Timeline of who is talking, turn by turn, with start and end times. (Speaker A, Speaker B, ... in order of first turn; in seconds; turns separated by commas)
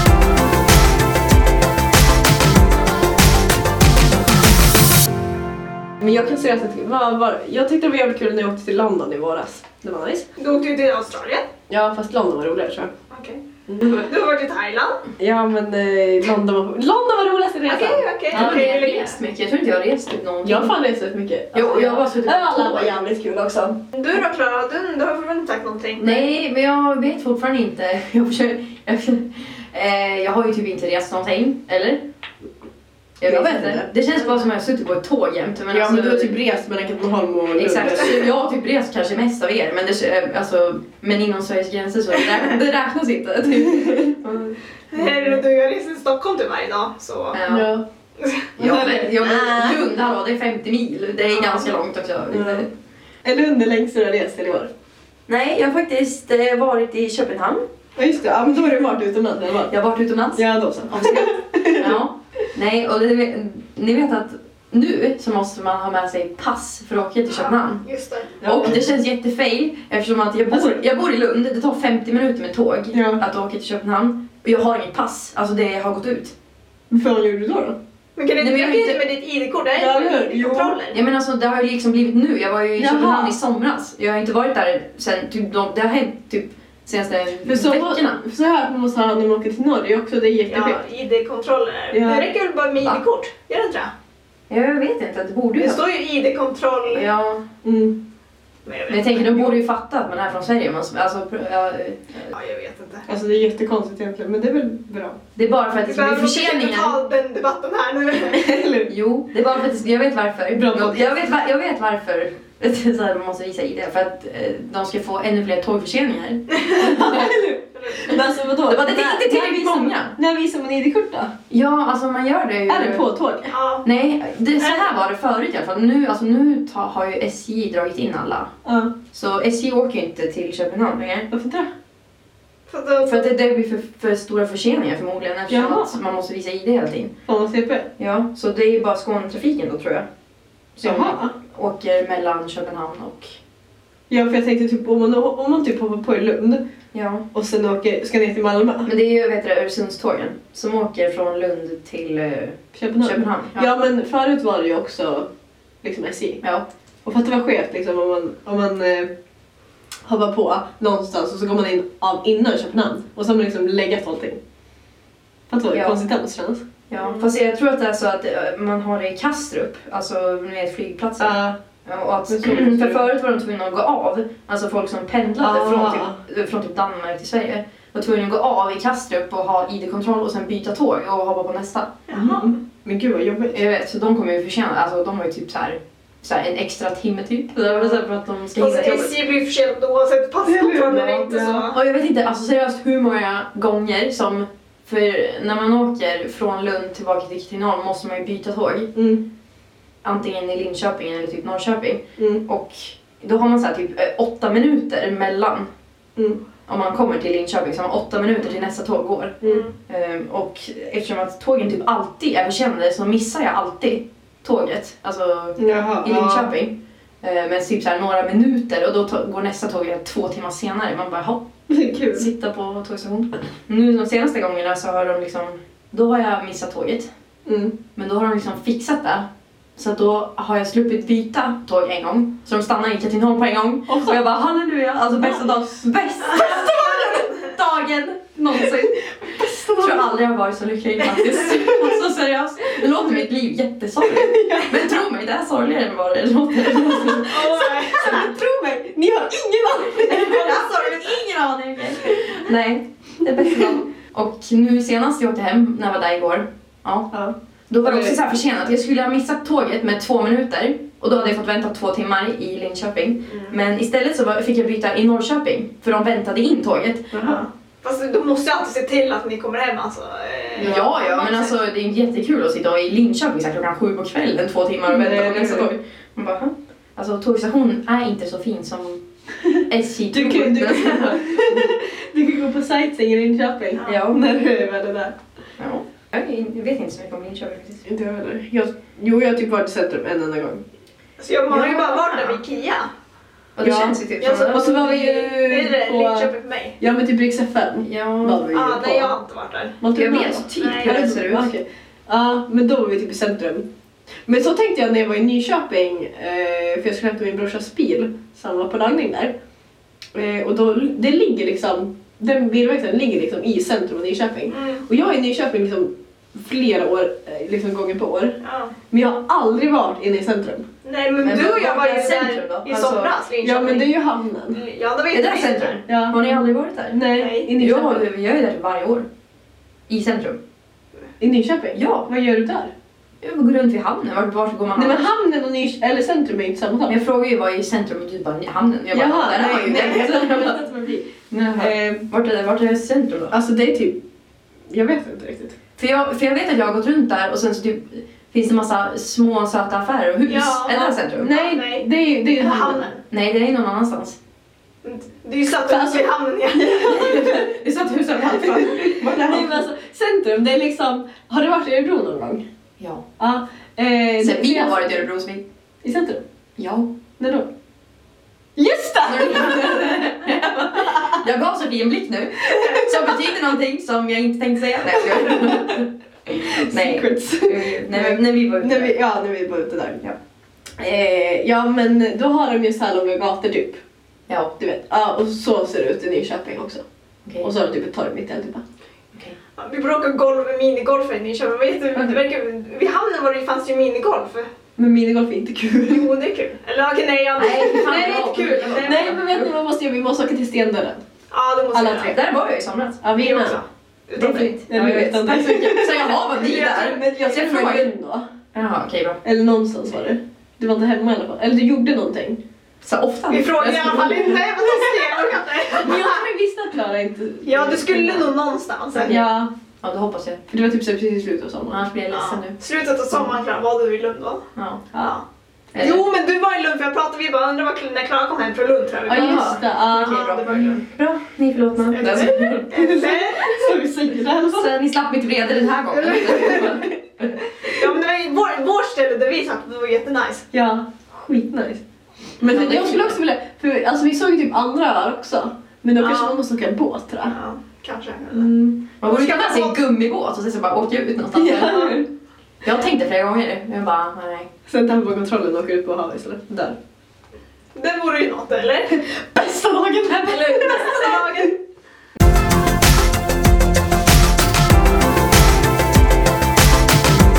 Speaker A: 6.0-10.3, Speaker B: 10.4-11.5, Speaker A: 11.7-12.9, Speaker B: 13.1-15.0, Speaker A: 13.7-14.0, Speaker A: 15.2-18.8, Speaker B: 17.6-19.2, Speaker C: 18.3-20.8, Speaker A: 20.4-23.8, Speaker C: 21.5-23.0, Speaker B: 23.9-26.2, Speaker C: 26.0-32.0, Speaker C: 33.2-36.4, Speaker A: 33.2-33.9, Speaker A: 35.7-38.3, Speaker C: 37.5-44.6, Speaker A: 43.8-44.1, Speaker B: 44.9-47.4, Speaker C: 47.3-47.8, Speaker A: 47.5-47.8, Speaker B: 48.2-48.5, Speaker A: 48.6-49.9, Speaker C: 48.6-52.7, Speaker B: 51.3-51.7, Speaker A: 52.3-52.7, Speaker A: 53.2-54.7, Speaker C: 55.3-57.6, Speaker A: 58.0-59.7, Speaker C: 59.7-67.8, Speaker A: 60.3-62.0, Speaker B: 67.3-68.3, Speaker A: 68.4-68.8, Speaker C: 68.4-76.3, Speaker A: 70.5-70.8, Speaker A: 72.9-73.2, Speaker A: 76.9-77.8, Speaker B: 78.2-81.0, Speaker C: 78.4-79.0, Speaker A: 79.7-80.8, Speaker C: 80.9-88.2, Speaker A: 82.8-83.4, Speaker A: 87.5-90.8, Speaker B: 90.5-93.9, Speaker A: 91.9-92.3, Speaker C: 94.5-95.8, Speaker B: 95.6-97.1, Speaker C: 96.9-97.5, Speaker A: 97.6-98.0, Speaker B: 98.7-99.5, Speaker C: 98.9-102.3, Speaker B: 102.3-103.0, Speaker A: 103.1-105.2, Speaker C: 105.3-107.0, Speaker B: 105.8-108.5, Speaker A: 108.3-108.9, Speaker C: 108.9-117.3, Speaker A: 110.5-111.2, Speaker A: 116.7-121.3, Speaker B: 117.8-118.1, Speaker C: 118.6-120.2, Speaker C: 121.5-123.1, Speaker A: 122.7-123.5, Speaker B: 123.5-123.8, Speaker C: 123.8-128.5, Speaker B: 124.6-124.9, Speaker A: 128.6-128.9, Speaker C: 129.1-131.3, Speaker A: 131.3-131.7, Speaker B: 132.7-133.3, Speaker C: 133.0-137.1, Speaker A: 135.5-135.9, Speaker A: 137.3-137.9, Speaker C: 138.0-140.1, Speaker C: 140.8-143.4, Speaker A: 140.8-141.3, Speaker A: 144.1-146.6, Speaker C: 146.9-147.2, Speaker A: 147.3-148.9, Speaker C: 148.8-153.7, Speaker A: 152.7-155.3, Speaker A: 155.8-156.4, Speaker A: 157.0-159.1, Speaker A: 160.0-164.4, Speaker A: 165.5-166.6, Speaker C: 165.7-166.0, Speaker C: 166.9-182.1, Speaker A: 171.2-171.6, Speaker A: 172.3-173.1, Speaker A: 175.4-176.2, Speaker B: 182.1-182.5, Speaker A: 182.1-183.6, Speaker C: 183.5-189.2, Speaker B: 188.6-191.8, Speaker A: 190.5-191.7, Speaker C: 191.7-198.9, Speaker A: 198.9-199.2, Speaker C: 200.0-205.7, Speaker A: 202.2-202.4, Speaker C: 206.7-221.5, Speaker B: 209.4-209.7, Speaker A: 215.6-216.5, Speaker A: 221.7-222.3, Speaker C: 222.1-227.1, Speaker A: 227.4-227.8, Speaker C: 227.9-247.7, Speaker A: 233.9-234.2, Speaker B: 236.3-237.5, Speaker A: 238.6-240.1, Speaker A: 244.0-244.9, Speaker A: 246.8-250.6, Speaker B: 247.2-248.3, Speaker C: 250.0-257.1, Speaker B: 250.1-251.2, Speaker A: 253.4-253.8, Speaker A: 257.1-258.3, Speaker C: 257.7-267.2, Speaker A: 267.1-267.4, Speaker B: 267.2-271.5, Speaker A: 270.6-270.9, Speaker C: 270.6-281.7, Speaker A: 274.9-275.7, Speaker A: 280.1-285.1, Speaker C: 283.8-284.3, Speaker C: 285.6-287.8, Speaker A: 287.8-290.6, Speaker B: 291.2-292.9, Speaker C: 291.5-292.3, Speaker A: 291.6-291.9, Speaker C: 293.6-294.7, Speaker A: 293.6-299.1, Speaker B: 294.2-296.8, Speaker C: 297.8-298.4, Speaker B: 298.5-299.8, Speaker A: 299.8-303.7, Speaker C: 299.9-301.5, Speaker B: 300.6-301.0, Speaker A: 304.2-309.3, Speaker A: 310.1-318.4, Speaker B: 314.5-314.8, Speaker B: 318.4-318.7, Speaker A: 318.9-320.6, Speaker B: 320.8-323.9, Speaker C: 321.2-323.1, Speaker A: 323.4-324.6, Speaker B: 324.5-325.8, Speaker C: 325.1-329.1, Speaker A: 325.9-326.4, Speaker A: 326.9-328.1, Speaker B: 327.1-327.5, Speaker C: 329.9-330.4, Speaker A: 331.2-332.7, Speaker C: 331.7-332.1, Speaker C: 333.2-335.1, Speaker A: 334.7-337.0, Speaker C: 336.8-340.7, Speaker A: 338.9-342.1, Speaker C: 341.3-343.4, Speaker A: 343.3-344.0, Speaker A: 344.7-345.6, Speaker C: 345.8-351.3, Speaker B: 350.3-353.0, Speaker A: 350.7-352.9, Speaker C: 353.1-354.2, Speaker B: 354.8-357.2, Speaker A: 355.7-357.5, Speaker C: 356.9-359.6, Speaker A: 358.2-362.4, Speaker C: 362.8-363.0, Speaker A: 363.2-365.1, Speaker C: 364.2-365.4, Speaker A: 365.8-366.2, Speaker C: 366.6-366.9, Speaker A: 367.2-367.5, Speaker A: 368.6-370.2, Speaker C: 369.0-378.9, Speaker A: 370.9-371.2, Speaker A: 372.5-373.1, Speaker A: 374.9-375.8, Speaker A: 376.4-380.0, Speaker A: 380.8-383.8, Speaker A: 384.6-386.8, Speaker A: 387.4-388.6, Speaker B: 389.6-394.5, Speaker A: 394.8-396.1, Speaker B: 395.9-399.2, Speaker C: 397.4-399.5, Speaker A: 397.4-401.0, Speaker B: 401.3-402.1, Speaker A: 401.7-402.2, Speaker C: 402.0-403.0, Speaker A: 403.0-403.6, Speaker B: 403.1-404.6, Speaker C: 404.1-407.9, Speaker A: 404.7-408.2, Speaker B: 406.4-407.0, Speaker C: 408.5-409.2, Speaker A: 409.2-412.4, Speaker C: 412.8-414.4, Speaker B: 413.3-416.2, Speaker A: 413.8-418.3, Speaker B: 417.4-419.2, Speaker A: 418.9-419.5, Speaker C: 419.0-420.4, Speaker A: 420.5-421.8, Speaker C: 421.7-422.5, Speaker B: 422.1-425.2, Speaker C: 424.6-424.8, Speaker C: 425.7-426.1, Speaker B: 425.8-430.8, Speaker A: 429.1-430.6, Speaker C: 429.1-432.7, Speaker B: 431.9-433.7, Speaker A: 432.0-434.7, Speaker C: 434.5-437.4, Speaker A: 436.0-436.9, Speaker B: 437.6-440.5, Speaker A: 440.5-441.8, Speaker A: 442.4-447.4, Speaker C: 442.4-443.2, Speaker B: 446.0-446.4, Speaker B: 447.3-448.5, Speaker C: 448.3-452.0, Speaker B: 449.0-449.8, Speaker A: 451.3-452.1, Speaker B: 451.7-451.9, Speaker C: 452.6-454.5, Speaker A: 454.7-456.8, Speaker B: 457.7-459.0, Speaker A: 458.9-461.5, Speaker B: 460.2-461.6